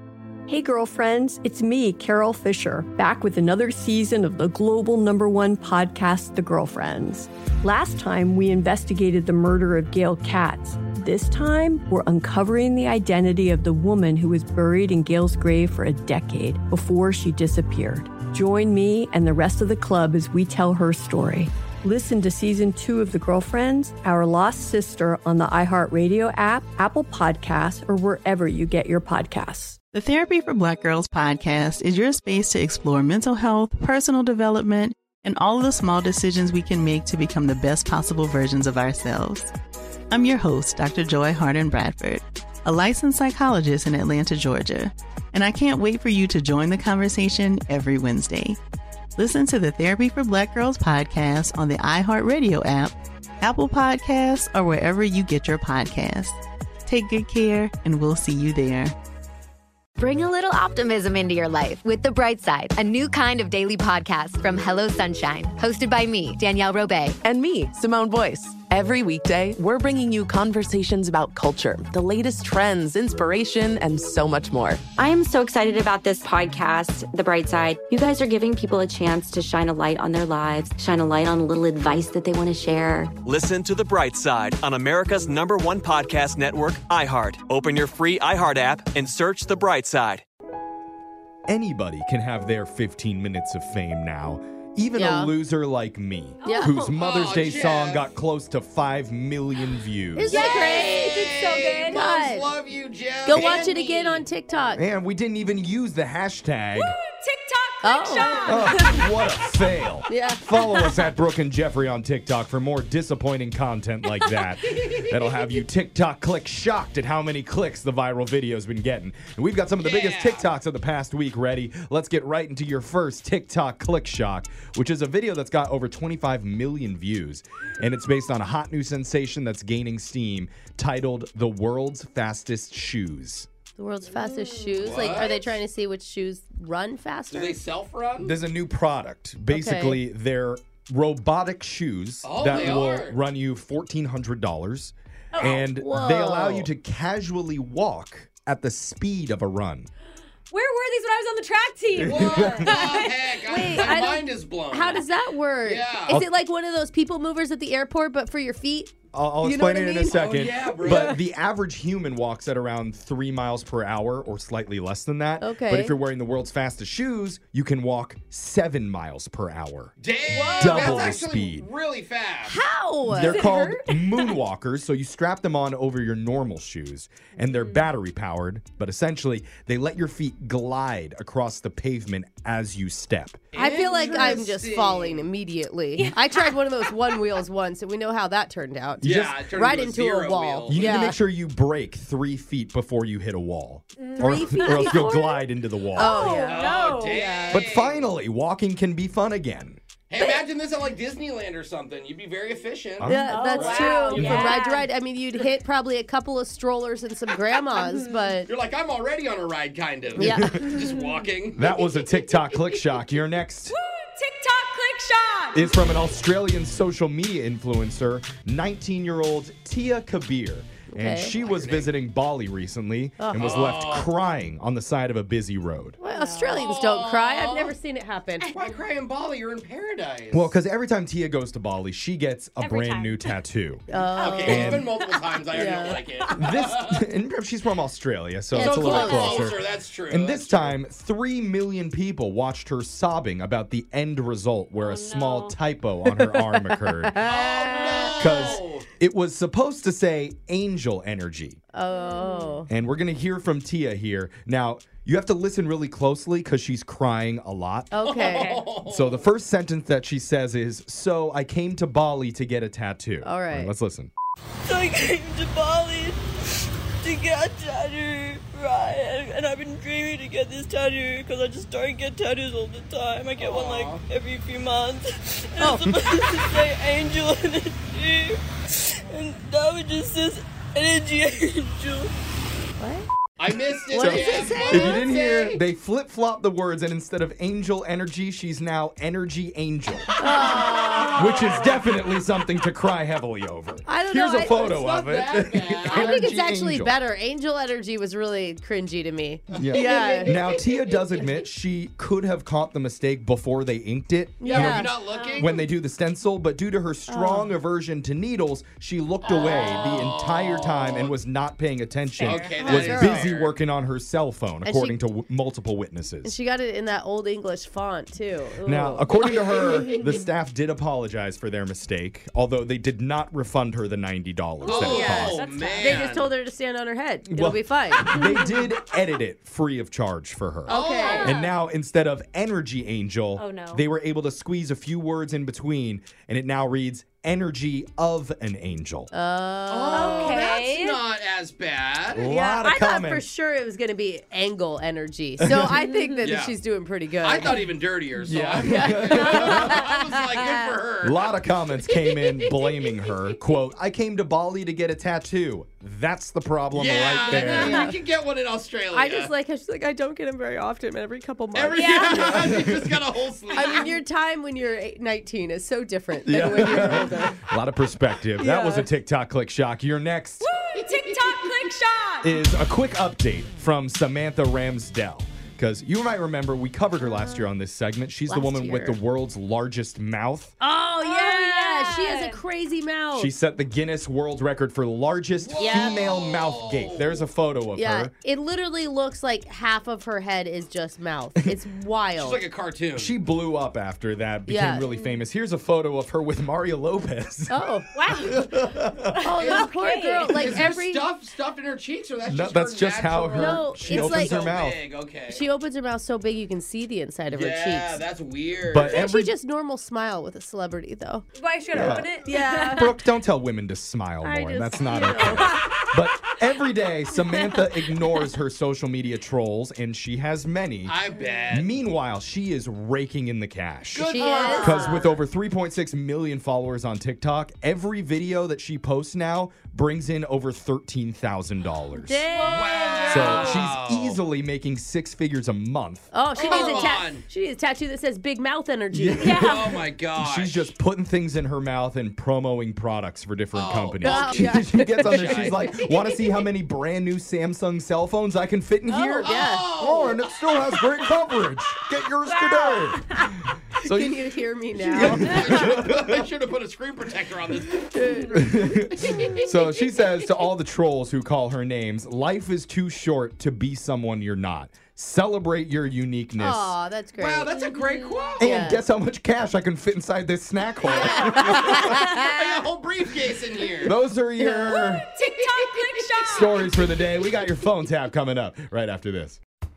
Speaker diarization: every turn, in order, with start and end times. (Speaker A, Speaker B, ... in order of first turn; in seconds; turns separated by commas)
Speaker A: 0.5-29.8, Speaker B: 29.9-39.5, Speaker B: 40.1-48.6, Speaker B: 49.2-59.0, Speaker C: 60.0-67.2, Speaker D: 67.2-74.8, Speaker E: 75.0-83.1, Speaker F: 83.2-90.2, Speaker G: 91.5-100.4, Speaker H: 94.9-95.3, Speaker I: 96.4-96.9, Speaker H: 96.5-96.7, Speaker J: 96.9-98.1, Speaker H: 100.2-101.0, Speaker I: 100.3-102.0, Speaker J: 100.4-104.2, Speaker H: 101.9-102.5, Speaker H: 103.2-104.8, Speaker G: 104.8-107.0, Speaker I: 107.2-107.6, Speaker H: 107.8-108.8, Speaker G: 108.4-133.5, Speaker H: 110.1-111.0, Speaker J: 119.8-120.5, Speaker H: 133.8-137.6, Speaker J: 134.5-135.6, Speaker J: 137.3-138.3, Speaker G: 138.2-149.9, Speaker H: 139.5-140.0, Speaker J: 142.2-143.2, Speaker H: 145.4-146.7, Speaker I: 150.5-153.2, Speaker G: 151.9-152.9, Speaker J: 152.0-155.1, Speaker H: 153.4-161.2, Speaker J: 155.6-156.1, Speaker G: 159.1-169.9, Speaker J: 160.1-161.1, Speaker H: 165.4-165.9, Speaker J: 170.0-172.6, Speaker I: 170.3-171.1, Speaker G: 170.5-171.7, Speaker H: 172.5-173.8, Speaker G: 173.1-183.4, Speaker J: 183.5-185.2, Speaker H: 183.6-191.2, Speaker I: 186.0-186.4, Speaker G: 189.0-189.4, Speaker J: 189.0-190.8, Speaker G: 190.7-196.5, Speaker I: 194.0-195.4, Speaker H: 194.2-195.0, Speaker H: 195.9-196.6, Speaker I: 196.0-197.5, Speaker J: 196.5-198.1, Speaker G: 197.5-199.8, Speaker J: 200.1-204.3, Speaker G: 203.0-203.5, Speaker H: 203.0-208.5, Speaker I: 203.3-204.9, Speaker G: 204.1-204.6, Speaker J: 208.5-211.6, Speaker H: 210.2-210.6, Speaker G: 210.2-210.8, Speaker G: 211.6-213.8, Speaker I: 213.7-215.6, Speaker G: 215.5-226.0, Speaker H: 220.9-221.4, Speaker J: 221.4-221.9, Speaker H: 223.2-223.6, Speaker J: 223.3-224.1, Speaker H: 226.0-228.5, Speaker I: 226.1-226.4, Speaker J: 226.5-227.8, Speaker J: 228.5-230.6, Speaker G: 230.3-233.9, Speaker I: 232.6-233.1, Speaker H: 233.9-234.8, Speaker J: 234.2-237.0, Speaker G: 234.4-234.9, Speaker H: 235.5-236.5, Speaker G: 236.3-247.2, Speaker H: 238.5-239.5, Speaker J: 238.6-240.8, Speaker I: 244.8-245.4, Speaker H: 246.1-248.3, Speaker J: 247.2-248.9, Speaker G: 248.2-251.6, Speaker H: 251.7-252.7, Speaker G: 252.7-257.9, Speaker H: 257.9-258.7, Speaker J: 258.0-259.3, Speaker G: 258.9-264.1, Speaker H: 263.2-263.7, Speaker K: 264.6-282.1, Speaker J: 273.4-274.0, Speaker H: 282.8-283.1, Speaker J: 283.4-285.6, Speaker H: 283.8-285.2, Speaker G: 283.9-290.6, Speaker H: 290.2-291.7, Speaker G: 291.1-296.9, Speaker H: 293.8-294.7, Speaker J: 294.5-296.2, Speaker H: 295.8-300.5, Speaker G: 299.5-316.3, Speaker H: 304.4-304.9, Speaker J: 304.4-305.6, Speaker H: 307.1-307.6, Speaker J: 309.6-311.1, Speaker I: 312.2-312.8, Speaker J: 312.3-313.6, Speaker H: 312.7-313.2, Speaker H: 314.6-315.0, Speaker H: 316.2-319.3, Speaker G: 318.6-325.4, Speaker J: 324.6-326.3, Speaker H: 324.7-328.1, Speaker I: 324.7-325.9, Speaker G: 327.3-339.1, Speaker H: 330.7-331.2, Speaker J: 330.7-331.3, Speaker I: 331.2-331.5, Speaker I: 333.4-333.8, Speaker H: 339.1-340.1, Speaker J: 339.7-342.2, Speaker I: 339.9-341.0, Speaker G: 342.1-343.3, Speaker H: 342.2-347.6, Speaker G: 345.4-345.8, Speaker I: 345.9-346.2, Speaker J: 346.2-346.6, Speaker J: 347.1-351.5, Speaker G: 348.2-349.8, Speaker H: 348.5-350.8, Speaker G: 351.0-357.9, Speaker J: 356.8-359.3, Speaker H: 357.2-358.0, Speaker H: 358.9-362.3, Speaker J: 361.5-364.0, Speaker I: 361.7-362.6, Speaker G: 362.1-363.1, Speaker H: 363.5-367.4, Speaker G: 366.2-370.5, Speaker H: 368.4-368.9, Speaker I: 370.5-372.3, Speaker J: 370.8-371.6, Speaker G: 372.2-380.5, Speaker H: 378.3-379.0, Speaker H: 380.6-383.3, Speaker I: 381.0-382.4, Speaker G: 383.1-388.1, Speaker J: 385.5-387.3, Speaker H: 385.6-386.0, Speaker H: 387.7-392.4, Speaker J: 392.1-393.1, Speaker G: 392.9-399.6, Speaker H: 394.4-394.9, Speaker H: 397.5-398.3, Speaker I: 399.1-400.3, Speaker H: 399.2-401.1, Speaker G: 400.3-400.6, Speaker J: 400.4-405.4, Speaker G: 402.3-404.8, Speaker H: 403.3-404.5, Speaker H: 405.3-408.0, Speaker J: 407.3-409.1, Speaker G: 408.7-409.3, Speaker H: 408.9-411.3, Speaker I: 411.4-412.8, Speaker G: 411.7-420.9, Speaker H: 412.2-413.0, Speaker H: 414.2-415.6, Speaker J: 420.9-421.7, Speaker G: 421.5-432.2, Speaker J: 423.9-425.2, Speaker H: 424.0-425.0, Speaker H: 432.0-432.6, Speaker I: 432.4-433.6, Speaker J: 432.5-434.2, Speaker G: 433.0-436.1, Speaker H: 436.1-439.5, Speaker J: 436.3-437.2, Speaker G: 438.9-454.2, Speaker J: 439.3-440.7, Speaker J: 443.5-444.4, Speaker H: 444.0-446.1, Speaker J: 445.0-445.5, Speaker H: 448.9-449.9, Speaker J: 449.1-450.2, Speaker I: 452.5-453.0, Speaker H: 453.8-455.5, Speaker G: 454.7-456.2, Speaker J: 455.4-457.9, Speaker H: 457.9-458.6, Speaker G: 458.3-466.8, Speaker H: 466.4-467.6, Speaker J: 467.2-468.4, Speaker I: 467.6-468.2, Speaker H: 468.4-468.8, Speaker G: 468.4-472.1, Speaker H: 470.9-472.6, Speaker J: 472.2-473.9, Speaker G: 473.8-475.1, Speaker H: 474.4-475.0, Speaker J: 475.3-476.3, Speaker I: 475.4-476.6, Speaker G: 476.2-479.4